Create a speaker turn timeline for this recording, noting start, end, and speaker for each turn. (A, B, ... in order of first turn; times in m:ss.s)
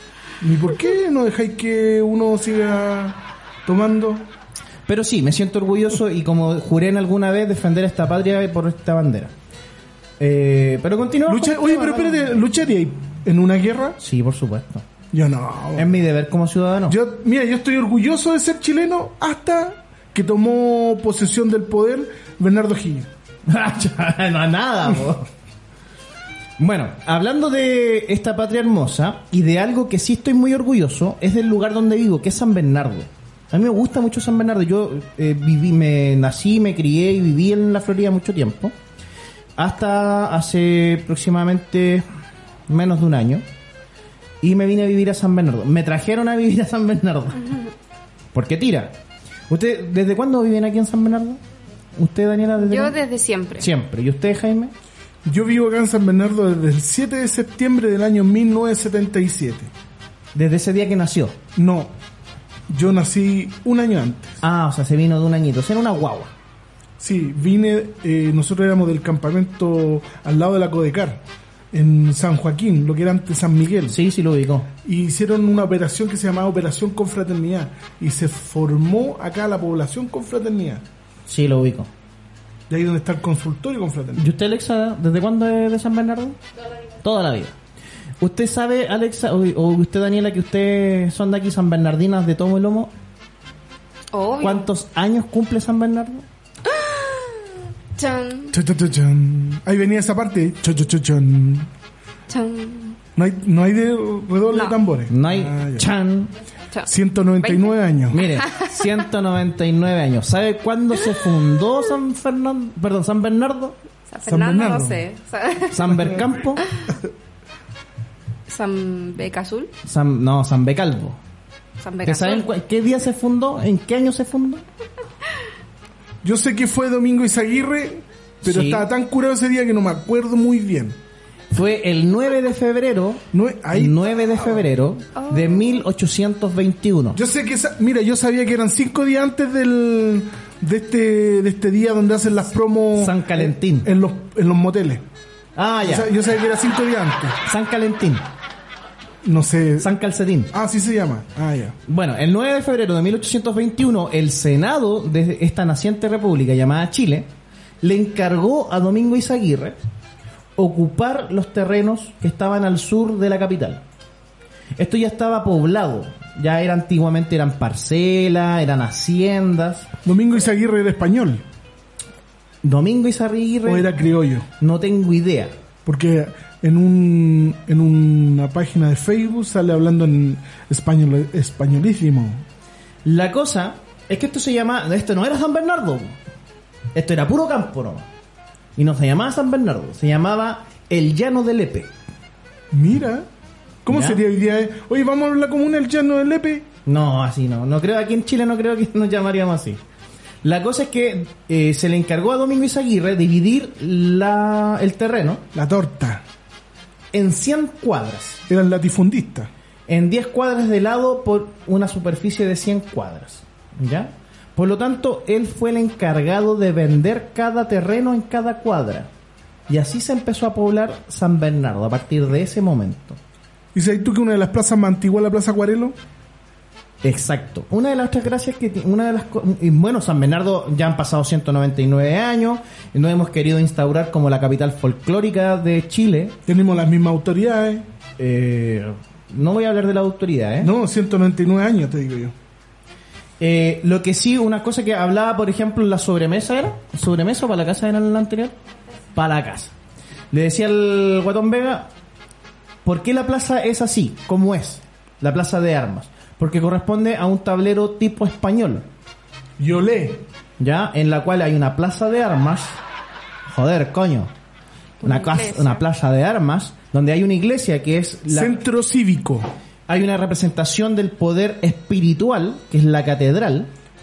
0:00.4-0:04.3 A
0:04.9-0:09.3 B
0:10.2-0:12.3 B
0:11.2-0:14.0 A
0:14.0-0:14.8 B
0:15.1-0:16.0 A
0:15.8-0:17.0 B
0:16.9-0:23.1 A
0:23.5-0:25.3 B
0:26.6-0:38.7 B
0:39.6-0:42.0 B
0:42.7-0:43.4 B
0:44.4-0:47.4 B
0:48.3-0:48.9 B
0:49.5-0:51.4 B
0:52.0-0:52.9 B
0:52.6-0:53.7 C
0:53.6-0:54.7 B
0:55.2-0:59.7 A
1:00.3-1:01.4 B
1:01.6-1:01.9 A
1:02.7-1:04.4 A
1:04.4-1:06.3 B
1:07.0-1:14.0 A
1:13.9-1:14.7 B
1:14.8-1:20.8 A
1:21.3-1:21.9 B
1:22.7-1:24.3 A
1:24.2-1:26.4 B
1:27.0-1:27.5 B
1:28.2-1:32.9 B
1:34.1-1:34.7 C
1:34.4-1:36.2 B
1:36.7-1:38.6 C
1:38.5-1:41.7 A
1:42.3-1:43.0 C
1:43.2-1:45.9 A
1:45.1-1:46.3 B
1:46.8-1:48.2 A
1:47.4-1:47.8 C
1:48.1-1:53.8 B
1:48.4-1:48.6 C
1:54.1-1:56.1 C
1:54.2-1:55.0 A
1:55.7-1:56.6 B
1:58.5-1:59.7 C
1:59.8-2:01.2 B
2:01.8-2:02.5 C
2:02.0-2:04.6 B
2:06.2-2:11.0 A
2:08.4-2:08.8 B
2:11.5-2:17.2 B
2:13.3-2:14.7 A
2:15.2-2:15.8 C
2:17.1-2:25.0 A
2:23.0-2:23.9 B
2:25.6-2:26.1 B
2:25.8-2:27.4 A
2:27.4-2:28.2 B
2:29.2-2:29.9 A
2:29.8-2:30.5 B
2:30.5-2:31.8 A
2:31.9-2:37.3 B
2:37.8-2:39.8 B
2:40.6-2:43.8 B
2:44.8-2:49.9 B
2:50.0-2:51.4 A
2:52.6-2:53.9 B
2:53.6-2:54.5 A
2:54.6-2:55.5 B
2:55.8-3:02.4 A
3:03.0-3:06.2 B
3:06.9-3:08.0 B
3:08.8-3:11.9 B
3:12.7-3:13.3 A
3:13.8-3:16.7 A
3:13.9-3:14.2 B
3:16.8-3:19.8 B
3:20.4-3:25.4 B
3:25.5-3:26.2 A
3:27.1-3:28.4 B
3:28.5-3:29.5 A
3:29.9-3:39.1 B
3:39.7-3:43.2 B
3:43.7-3:46.0 A
3:47.0-3:56.4 B
3:56.5-3:57.8 A
3:58.2-4:00.7 B
4:00.6-4:02.3 A
4:03.4-4:08.6 B
4:09.1-4:09.7 B
4:10.3-4:11.9 B
4:12.8-4:18.8 B
4:19.6-4:20.2 A
4:20.6-4:22.8 B
4:23.5-4:24.3 B
4:25.0-4:25.8 C
4:25.0-4:28.6 B
4:28.3-4:29.5 A
4:29.9-4:33.7 B